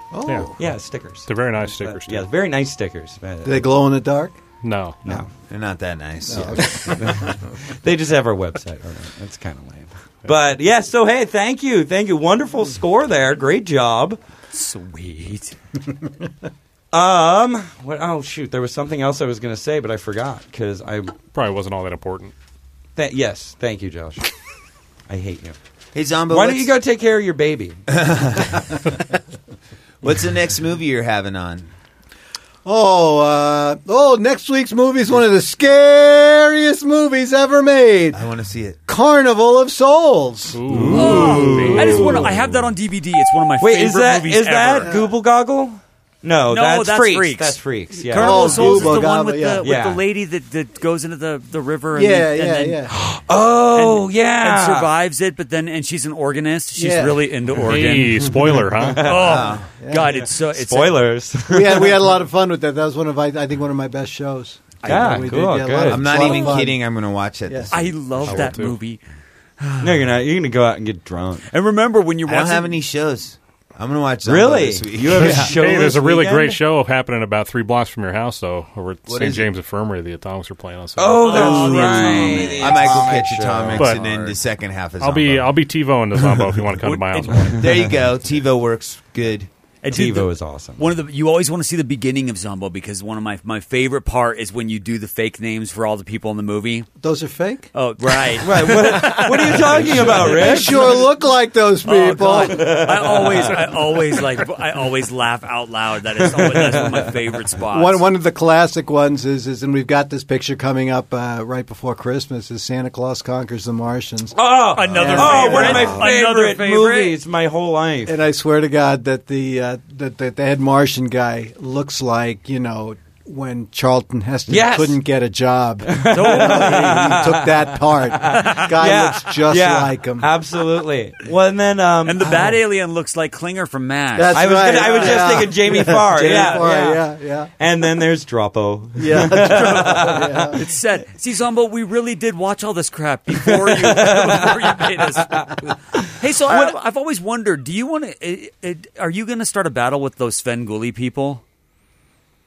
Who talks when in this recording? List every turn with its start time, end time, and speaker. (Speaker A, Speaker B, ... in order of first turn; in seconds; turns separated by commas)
Speaker A: 0.1-0.5, Speaker B: 0.3-0.5, Speaker C: 0.6-3.7, Speaker B: 1.3-2.2, Speaker A: 3.4-4.4, Speaker B: 4.6-5.2, Speaker D: 5.5-7.2, Speaker A: 6.3-7.3, Speaker C: 7.0-14.2, Speaker E: 14.5-15.6, Speaker C: 16.9-21.1, Speaker B: 21.3-22.3, Speaker C: 23.0-24.3, Speaker C: 25.1-25.6, Speaker D: 25.9-26.8, Speaker C: 26.3-27.8, Speaker D: 27.9-28.8, Speaker D: 30.0-31.7, Speaker A: 32.6-38.2, Speaker D: 38.1-38.8, Speaker A: 38.9-41.7, Speaker B: 40.5-42.7, Speaker C: 40.7-42.3, Speaker E: 40.9-44.9, Speaker C: 43.6-49.0, Speaker E: 46.5-53.2, Speaker A: 48.1-49.7, Speaker C: 49.6-50.0, Speaker A: 52.0-52.9, Speaker C: 53.1-54.9, Speaker E: 53.7-58.4, Speaker A: 56.7-57.2, Speaker B: 57.6-59.3, Speaker A: 58.2-58.9, Speaker C: 59.0-59.4, Speaker E: 59.0-61.0, Speaker D: 59.1-59.7, Speaker A: 59.8-60.2, Speaker C: 60.5-62.1, Speaker A: 61.5-66.8, Speaker E: 64.8-65.3, Speaker C: 64.8-66.2, Speaker D: 65.9-68.6, Speaker E: 66.2-66.5, Speaker A: 67.5-67.7, Speaker E: 67.7-69.0, Speaker B: 68.2-68.8, Speaker E: 69.6-70.1, Speaker C: 69.8-71.5, Speaker E: 71.5-72.8, Speaker D: 72.2-75.6, Speaker C: 74.2-76.6, Speaker B: 75.2-81.8, Speaker D: 79.1-79.5, Speaker C: 81.0-84.3, Speaker E: 81.2-83.1, Speaker D: 81.4-85.6, Speaker B: 83.8-84.0, Speaker B: 85.0-87.7, Speaker E: 86.8-87.8, Speaker D: 87.5-89.5, Speaker E: 89.8-96.9, Speaker C: 89.9-90.8, Speaker A: 97.0-97.7, Speaker E: 97.7-101.2, Speaker C: 98.4-101.1, Speaker A: 99.9-102.8, Speaker E: 101.8-108.0, Speaker C: 102.4-103.7, Speaker C: 106.2-107.1, Speaker A: 107.7-116.1, Speaker C: 114.3-118.2, Speaker E: 114.7-117.2, Speaker A: 118.1-130.3, Speaker C: 124.5-125.0, Speaker C: 125.9-132.3, Speaker E: 126.1-127.2, Speaker E: 128.3-128.6, Speaker E: 132.1-135.3, Speaker A: 132.2-132.6, Speaker A: 134.2-137.5, Speaker C: 134.3-137.1, Speaker C: 137.6-140.5, Speaker A: 139.0-140.6, Speaker E: 139.3-151.4, Speaker C: 143.3-146.7